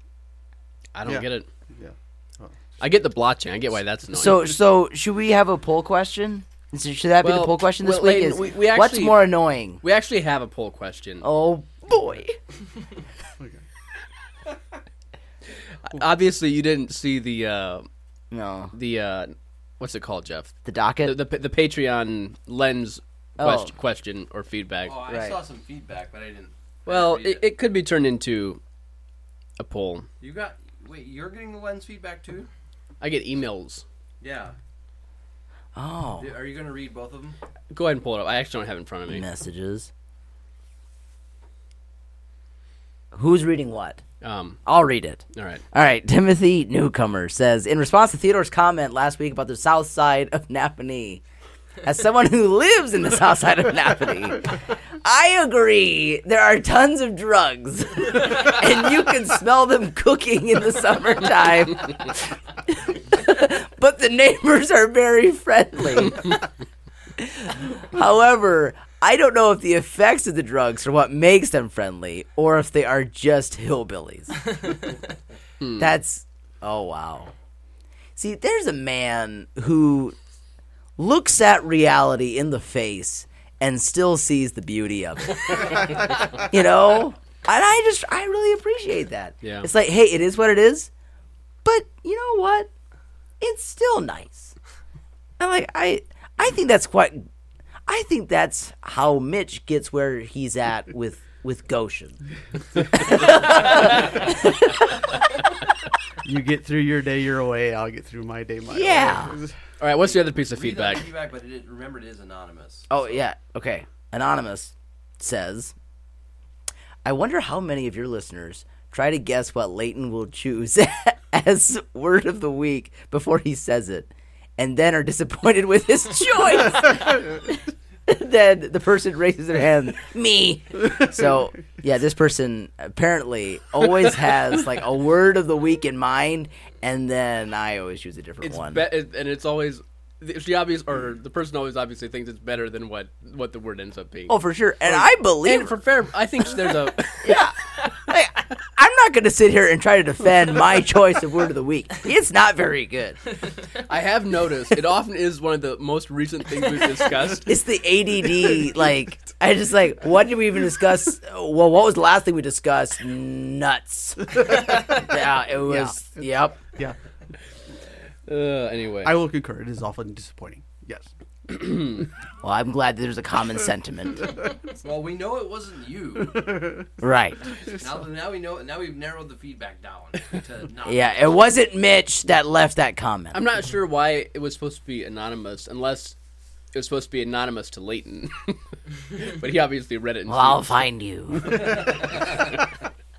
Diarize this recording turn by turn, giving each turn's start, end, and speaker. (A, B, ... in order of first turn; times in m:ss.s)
0:00.9-0:01.5 A
0:01.0-0:02.6 B
0:02.8-0:04.4 A
0:04.1-0:09.8 C
0:07.2-0:09.3 A
0:09.8-0:11.3 A
0:11.2-0:12.4 C
0:15.9-0:17.9 A
0:18.3-0:18.7 C
0:18.7-0:25.0 A
0:20.6-0:21.2 C
0:23.4-0:23.7 C
0:24.8-0:27.4 D
0:25.1-0:25.4 C
0:26.8-0:28.6 A
0:29.6-0:30.1 A
0:30.2-0:32.5 D
0:33.0-0:33.8 A
0:34.2-0:34.5 D
0:35.7-0:36.3 C
0:36.2-0:37.4 D
0:37.7-0:39.2 A
0:39.1-0:39.9 C
0:43.1-0:44.0 C
0:44.2-0:44.6 A
0:44.6-0:51.2 C
0:45.3-0:45.6 A
0:51.8-1:06.3 C
1:07.2-1:14.8 C
1:15.6-1:15.9 A
1:15.8-1:17.3 C
1:18.2-1:20.1 C
1:21.0-1:30.9 C
1:29.4-1:29.7 A
1:31.6-1:32.7 C
1:33.4-1:34.5 C
1:35.4-1:37.3 C
1:37.9-1:42.2 C
1:42.9-1:44.7 C
1:46.2-1:49.5 B
1:48.7-1:49.4 C
1:49.8-1:51.1 A
1:50.4-1:53.0 D
1:52.9-1:55.7 C
1:57.0-2:18.8 C
2:18.4-2:24.4 A
2:24.3-2:25.8 C
2:24.9-2:27.4 A
2:27.2-2:33.2 C
2:33.8-2:37.5 A
2:37.4-2:46.6 C
2:44.5-2:45.1 B
2:45.7-2:47.0 B
2:48.3-2:49.2 A
2:49.0-2:51.1 B
2:52.4-2:54.4 C
2:54.8-2:56.6 D
2:56.5-2:56.9 B
2:57.0-2:57.5 C
2:57.7-3:01.1 D
3:00.8-3:03.4 C
3:03.3-3:06.2 A
3:06.7-3:10.8 A
3:10.3-3:12.0 C
3:12.0-3:12.6 A